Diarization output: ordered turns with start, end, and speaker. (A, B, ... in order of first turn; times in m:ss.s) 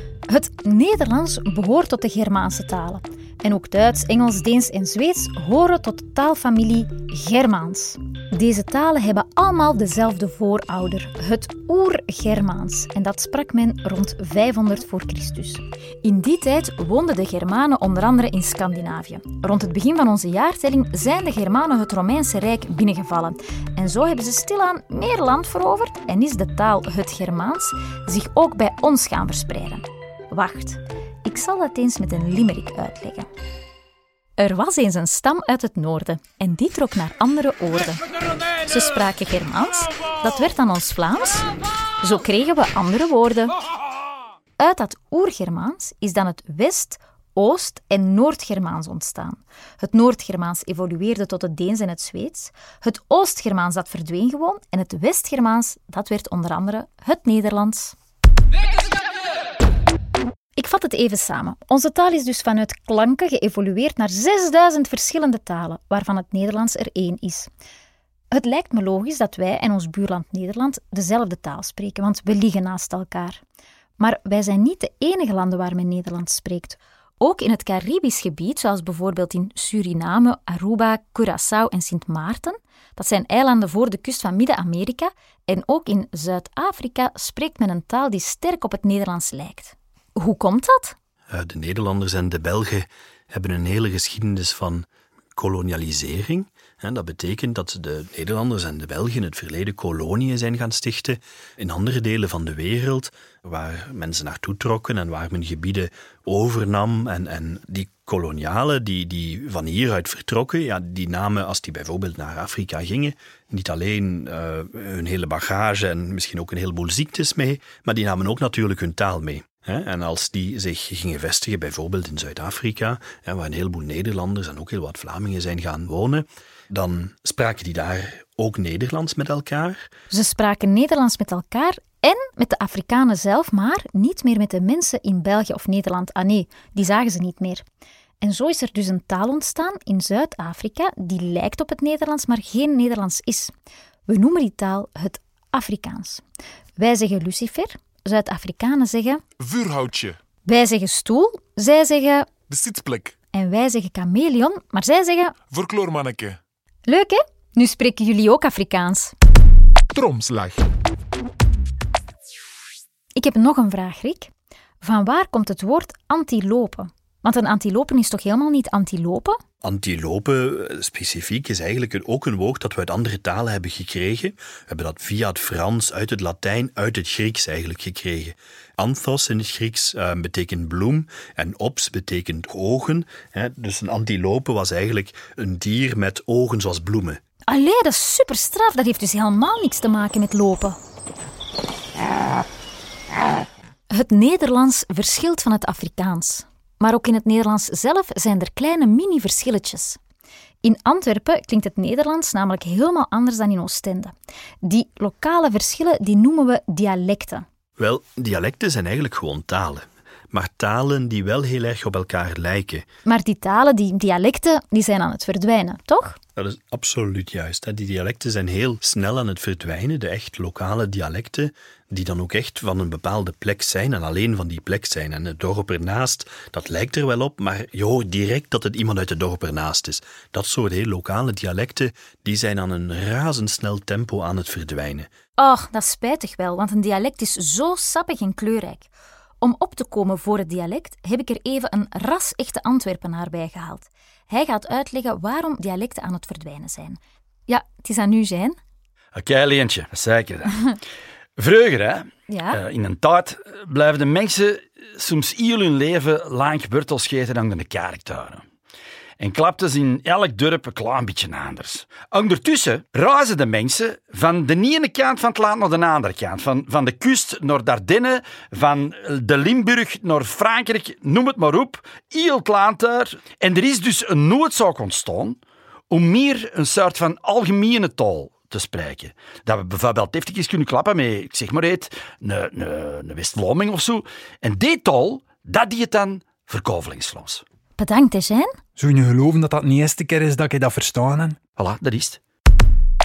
0:00.3-0:33.3 A
0:34.4-0:38.0 A
0:38.6-0:41.4 A
0:42.0-0:43.6 A
0:44.6-0:58.0 A
1:00.6-1:07.5 A
1:08.3-1:13.4 A
1:14.0-1:30.9 A
1:31.3-2:09.9 B
2:10.1-2:17.6 A
2:18.2-2:23.5 A
2:24.1-2:26.2 A
2:26.8-2:29.2 A
2:29.4-2:30.2 C
2:30.4-2:32.3 A
2:32.5-2:33.1 C
2:33.3-2:35.3 A
2:35.5-2:36.4 C
2:36.8-2:39.1 A
2:39.9-2:40.6 C
2:43.2-2:44.3 A
2:44.8-2:49.4 A
2:49.6-3:07.2 B
3:07.5-3:10.8 A
3:13.9-3:20.0 A
3:20.6-3:27.4 A
3:27.8-3:32.8 B
3:33.0-3:36.2 A
3:36.4-3:55.1 B
3:55.4-3:58.9 A
3:59.4-4:08.6 A
4:09.1-4:10.8 D
4:11.4-4:18.4 D
4:12.3-4:12.6 A
4:19.2-4:35.4 D
4:35.9-4:47.4 D
4:47.8-4:48.5 A
4:48.8-4:51.4 E
4:51.6-4:52.2 D